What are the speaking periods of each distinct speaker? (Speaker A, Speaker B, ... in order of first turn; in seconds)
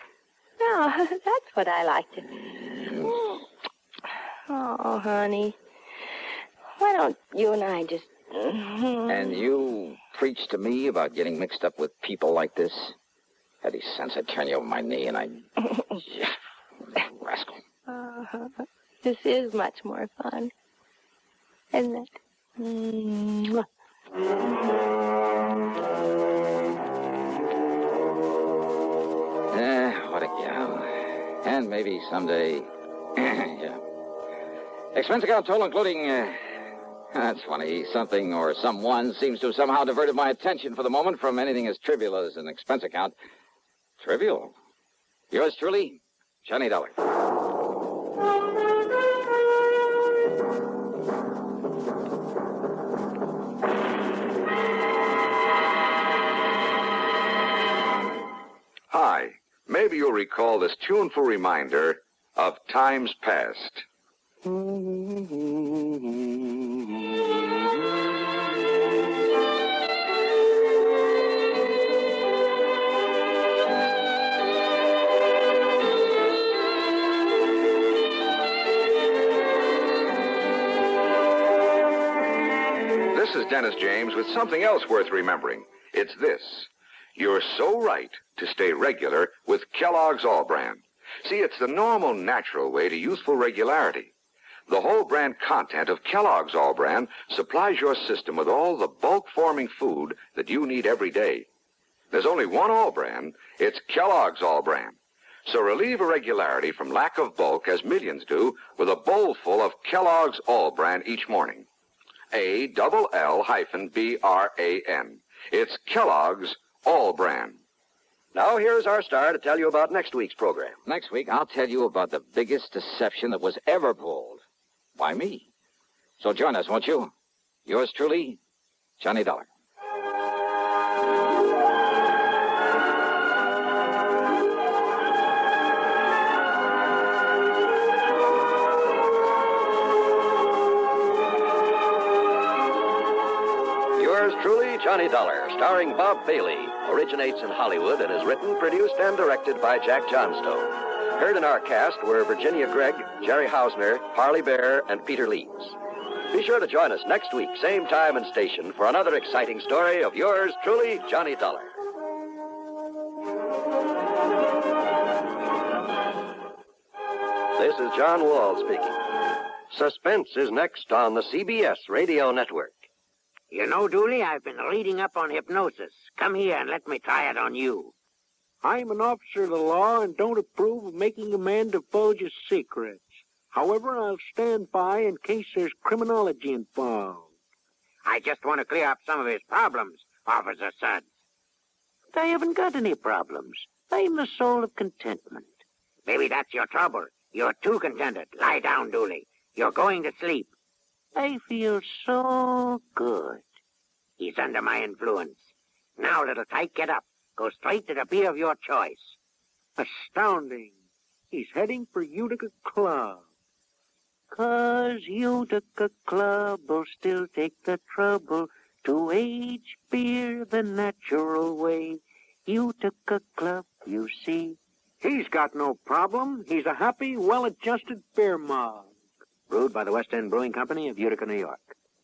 Speaker A: 0.6-3.4, 4.5-5.5, 6.8-9.4, 17.9-20.5, 21.7-23.6
Speaker B: 2.4-3.3, 9.1-12.9, 13.6-16.3, 16.9-17.6, 29.5-33.8, 34.9-43.1, 44.0-44.5, 45.3-46.9, 64.5-65.2, 120.8-124.4, 125.0-125.5, 126.2-127.1, 127.7-128.4, 129.0-129.5
Speaker C: 58.9-63.8, 83.1-94.1, 94.7-101.5, 102.1-111.7, 112.3-117.6
Speaker D: 118.3-120.8, 144.0-155.8, 156.3-161.8, 167.6-169.0, 169.7-172.8
Speaker E: 173.5-177.9, 188.0-191.1, 192.1-200.5, 201.1-203.4, 204.2-209.1, 209.8-210.7, 214.3-226.4, 229.5-231.7
Speaker F: 178.6-187.3, 211.3-213.2, 225.0-228.9